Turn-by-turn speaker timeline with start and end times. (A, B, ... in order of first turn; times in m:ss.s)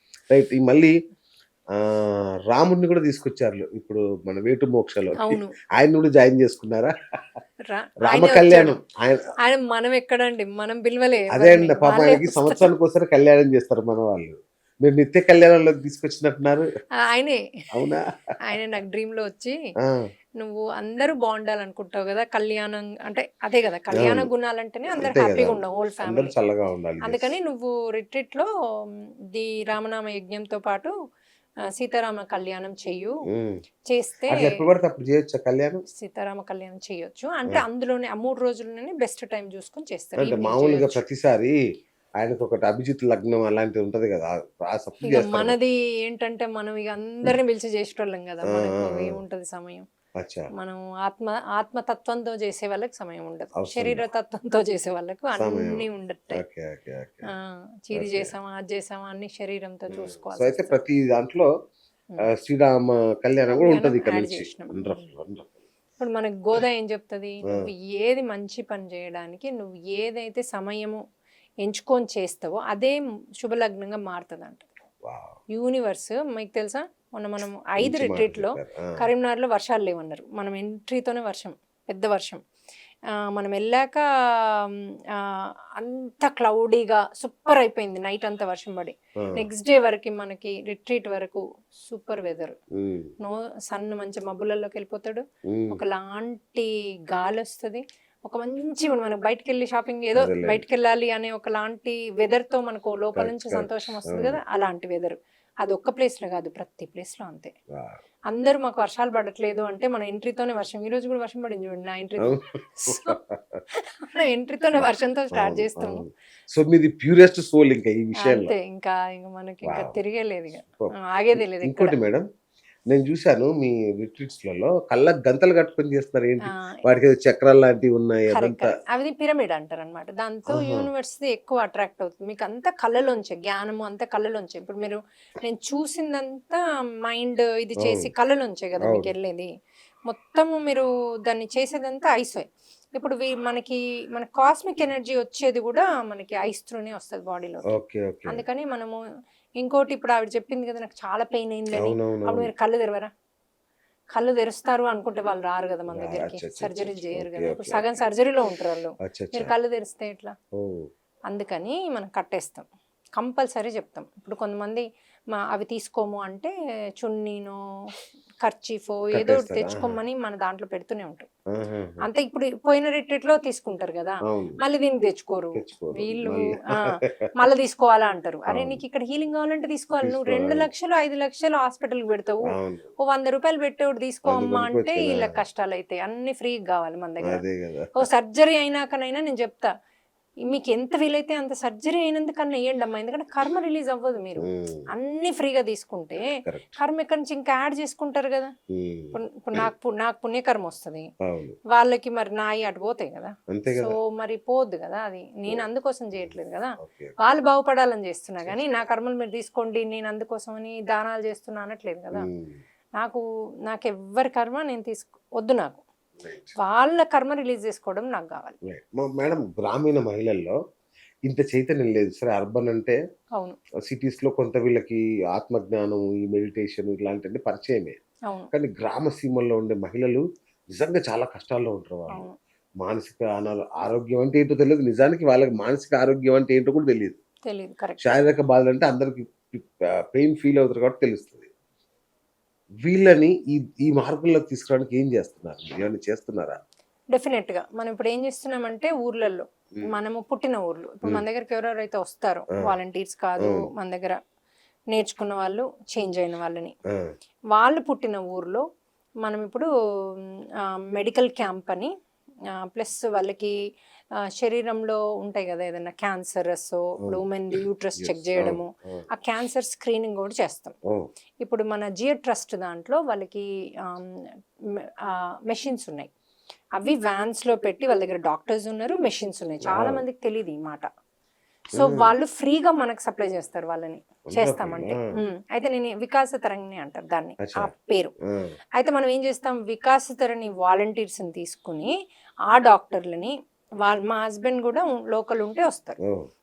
0:00.3-0:00.9 A
0:01.8-0:06.9 A
0:05.2-0:05.5 B
0:07.7-0:08.8 B
0:08.0-0:09.2 A
0:09.4-0:12.7 B
0:11.3-0:16.7 A
0:17.1-0:17.4 B
0:17.7-0:18.0 A
0:18.5-0:19.6 B
0:20.4-0:26.4 B
0:24.0-0:24.3 A
0:24.9-0:27.4 A
0:27.0-0:28.5 B
0:29.3-0:30.9 B
0:31.8-0:33.2 B
0:33.3-0:33.6 A
0:33.9-0:34.5 B
0:34.3-0:35.8 A
0:35.9-0:41.0 B
0:40.2-0:41.6 A
0:42.2-0:45.6 A
0:45.1-0:49.8 B
0:48.5-0:49.2 A
0:50.2-0:50.5 A
0:50.6-0:56.4 B
0:53.6-0:54.0 A
0:55.4-0:57.3 A
0:57.3-1:00.8 B
0:57.9-0:58.4 A
0:59.9-1:01.5 A
1:02.3-1:05.6 A
1:03.5-1:05.1 B
1:06.0-1:11.0 B
1:11.6-1:14.7 B
1:15.0-1:15.4 A
1:15.5-1:22.4 B
1:17.8-1:18.9 A
1:23.3-1:32.6 B
1:32.8-1:33.1 A
1:33.2-1:47.5 B
1:35.5-1:35.8 A
1:40.2-1:40.6 A
1:43.2-1:44.4 A
1:47.7-1:48.0 A
1:48.3-1:53.2 B
1:52.2-1:53.6 A
1:53.8-1:56.0 B
1:54.8-1:58.6 A
1:58.2-2:02.0 B
1:59.6-2:00.0 A
2:00.8-2:02.3 A
2:02.9-2:08.7 A
2:06.5-2:06.8 B
2:08.3-2:19.5 B
2:10.5-2:10.9 A
2:17.8-2:18.1 A
2:18.8-2:19.1 A
2:20.1-2:29.0 B
2:27.7-2:28.4 A
2:29.6-2:33.1 B
2:31.7-2:32.5 A
2:34.1-2:40.4 B
2:35.9-2:37.8 A
2:39.1-2:39.5 A
2:40.6-2:40.9 A
2:41.3-2:42.7 B
2:43.2-2:47.6 B
2:48.4-2:51.3 B
2:49.1-2:50.0 A
2:51.6-2:52.0 A
2:52.0-3:07.4 B
2:54.3-2:54.6 A
2:55.6-2:57.3 A
2:58.5-2:58.8 A
3:00.0-3:00.7 A
3:02.5-3:02.9 A
3:04.3-3:05.4 A
3:07.2-3:08.1 A
3:08.0-3:09.7 B
3:10.4-3:18.5 B
3:14.4-3:14.8 A
3:16.4-3:16.8 A
3:18.7-3:19.7 A
3:19.1-3:21.1 B
3:21.2-3:21.6 A
3:21.7-3:32.3 B
3:23.5-3:24.0 A
3:25.5-3:27.2 A
3:28.4-3:28.9 A
3:32.1-3:32.6 A
3:33.0-3:35.8 B
3:36.2-3:36.6 A
3:36.6-3:38.6 B
3:38.7-3:40.6 A
3:41.3-3:43.0 A
3:43.9-3:48.0 A
3:48.5-3:52.3 A
3:52.1-3:52.4 B
3:52.8-3:57.2 A
3:57.4-3:58.1 B
3:58.0-4:01.5 A
4:02.8-4:06.6 A
4:07.1-4:14.2 B
4:14.9-4:16.7 B
4:17.5-4:18.6 B
4:19.2-4:19.7 B
4:20.7-4:21.9 B
4:22.7-4:23.6 B
4:24.4-4:30.8 B
4:28.0-4:29.0 A
4:31.4-4:34.3 B
4:35.1-4:36.1 B
4:36.8-4:40.9 B
4:39.6-4:40.0 A
4:41.7-4:48.1 B
4:41.8-4:42.1 A
4:44.3-4:45.0 A
4:47.4-4:47.7 A
4:48.8-4:51.9 B
4:52.5-4:56.0 B